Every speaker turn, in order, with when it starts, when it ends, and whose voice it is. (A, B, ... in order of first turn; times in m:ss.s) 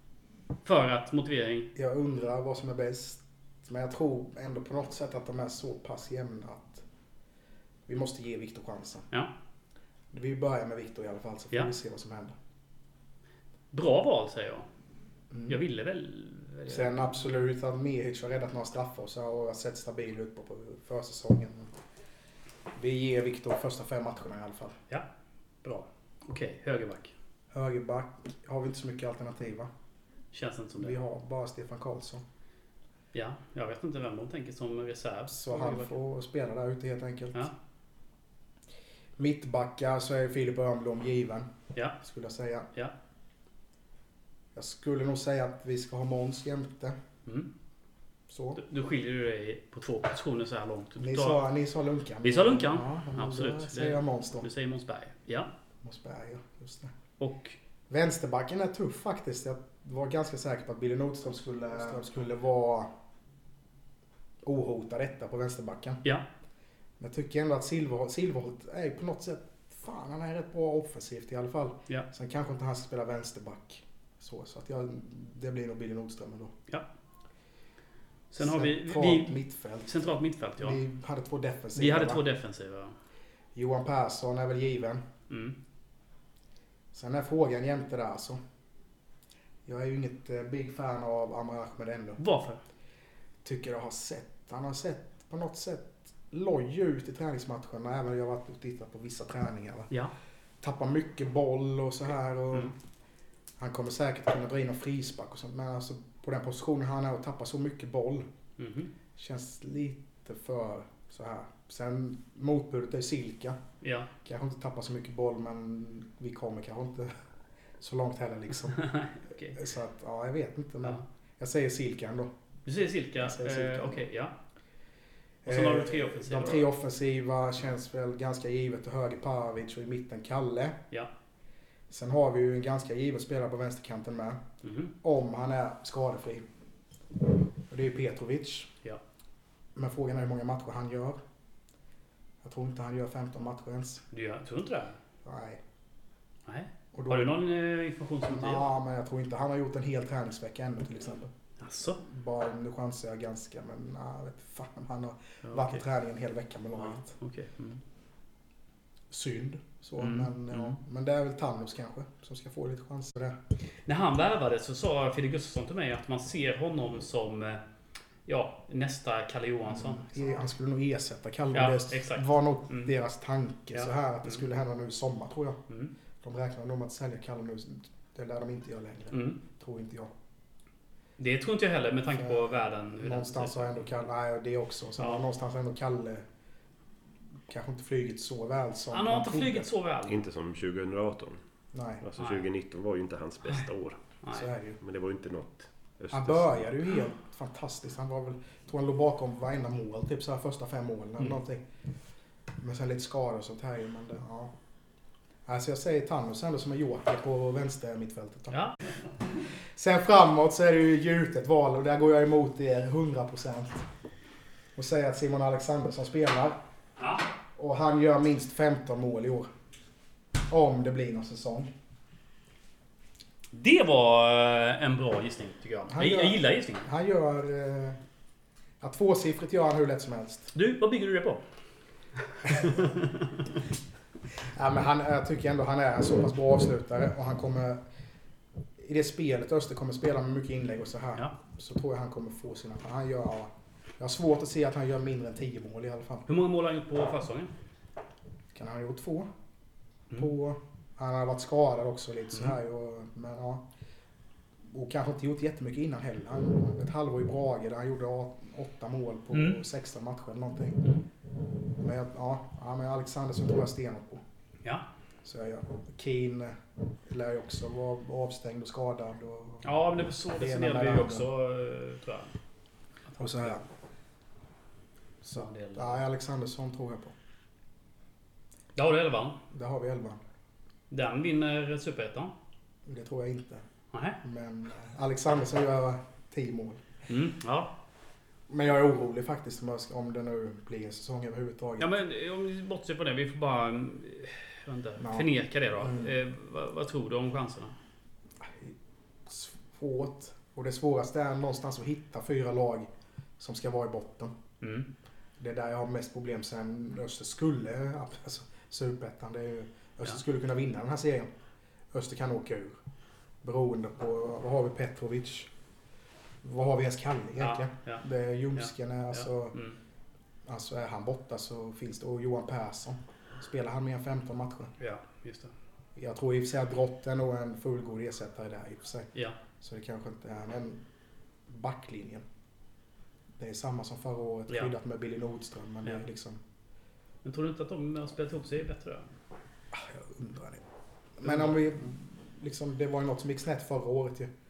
0:00.6-0:01.7 A
0:01.7-0:06.8 B
0:07.9-0:09.1 B
0:10.1-0:12.3 B
0:13.7-0:14.7 A
0:15.3-0:15.6 B
0:15.5-0:17.3 A
0:16.7-0:21.7 B
0:22.7-0:24.8 B
0:25.6-0:27.1 A
0:27.5-0:29.7 B
0:30.3-0:31.0 A
0:30.8-0:32.2 B
0:33.1-0:35.9 A
0:35.3-0:37.5 B
0:39.2-0:41.5 B
0:42.0-0:42.7 B
0:44.5-0:47.0 B
0:48.3-0:48.6 B
0:48.6-0:51.4 A
0:51.0-0:54.5 B
0:52.2-0:55.5 A
0:55.8-0:56.9 B
0:57.2-0:57.6 A
0:57.9-1:02.9 B
1:04.4-1:06.0 B
1:07.0-1:16.5 B
1:18.3-1:20.8 A
1:18.4-1:22.2 B
1:21.7-1:22.9 A
1:23.5-1:25.0 B
1:25.3-1:25.6 A
1:26.9-1:28.4 B
1:29.6-1:32.2 B
1:32.2-1:32.6 A
1:33.4-1:39.9 B
1:40.6-1:42.7 B
1:43.6-1:48.2 B
1:48.6-1:48.9 A
1:49.2-1:53.6 B
1:53.8-1:54.1 A
1:54.2-1:57.1 B
1:57.8-1:58.9 B
1:58.7-1:59.6 A
1:59.5-2:02.3 B
2:02.6-2:04.3 A
2:03.2-2:04.0 B
2:05.4-2:10.8 B
2:05.4-2:06.7 A
2:11.9-2:14.4 B
2:14.6-2:14.9 A
2:15.0-2:16.4 B
2:17.7-2:18.7 B
2:19.7-2:21.2 B
2:22.4-2:24.0 B
2:24.1-2:25.0 A
2:25.2-2:25.6 B
2:26.4-2:28.7 A
2:26.9-2:27.4 B
2:28.2-2:31.3 B
2:31.6-2:32.0 A
2:32.0-2:37.1 B
2:35.4-2:35.8 A
2:36.8-2:37.8 A
2:39.1-2:43.4 B
2:40.0-2:40.8 A
2:43.8-2:47.6 A
2:48.2-2:50.2 A
2:49.7-2:55.6 B
2:51.5-2:52.9 A
2:56.2-3:00.1 B
2:59.1-2:59.4 A
3:01.2-3:03.8 A
3:02.1-3:06.2 B
3:07.5-3:09.7 B
3:08.9-3:10.2 A
3:10.1-3:11.4 C
3:11.7-3:12.0 B
3:12.0-3:14.0 C
3:12.2-3:12.4 A
3:14.2-3:14.5 A
3:14.3-3:14.8 B
3:14.8-3:16.7 C
3:16.1-3:21.6 B
3:22.6-3:24.5 B
3:25.4-3:28.6 B
3:28.5-3:28.8 A
3:29.7-3:33.8 B
3:34.8-3:36.6 B
3:37.0-3:37.2 A
3:37.6-3:39.5 B
3:40.5-3:41.7 B
3:43.5-3:46.9 A
3:45.9-3:48.0 B
3:48.8-3:50.5 B
3:50.5-3:51.4 A
3:52.5-3:52.9 A
3:54.4-3:57.8 B
3:58.8-4:06.3 B
4:06.3-4:07.5 A
4:08.5-4:09.3 B
4:10.1-4:13.6 B
4:14.7-4:20.8 B
4:19.3-4:19.6 A
4:21.8-4:24.2 B
4:25.2-4:31.3 B
4:29.6-4:32.3 A
4:33.1-4:33.6 A
4:33.2-4:33.6 B
4:35.2-4:37.1 B
4:35.3-4:36.0 A
4:38.8-4:39.4 A
4:39.5-4:40.2 B
4:40.9-4:42.3 A
4:42.8-4:43.6 B
4:43.9-4:44.2 A
4:44.2-4:46.8 B
4:47.1-4:47.7 A
4:48.5-4:51.9 B
4:51.8-4:57.7 A
4:55.0-4:55.3 B
4:55.8-4:56.1 B
4:58.4-4:58.7 B
4:59.2-5:04.3 B
5:04.6-5:04.9 A
5:05.4-5:11.3 B
5:11.9-5:12.8 B
5:13.4-5:15.5 B
5:16.4-5:19.6 B
5:17.4-5:18.0 A
5:18.6-5:19.8 A
5:20.4-5:24.7 B
5:24.8-5:25.5 A
5:26.0-5:30.8 B
5:31.5-5:32.2 B
5:33.4-5:36.4 B
5:37.2-5:39.1 A
5:39.7-5:40.6 B
5:41.2-5:44.3 B
5:41.2-5:41.6 A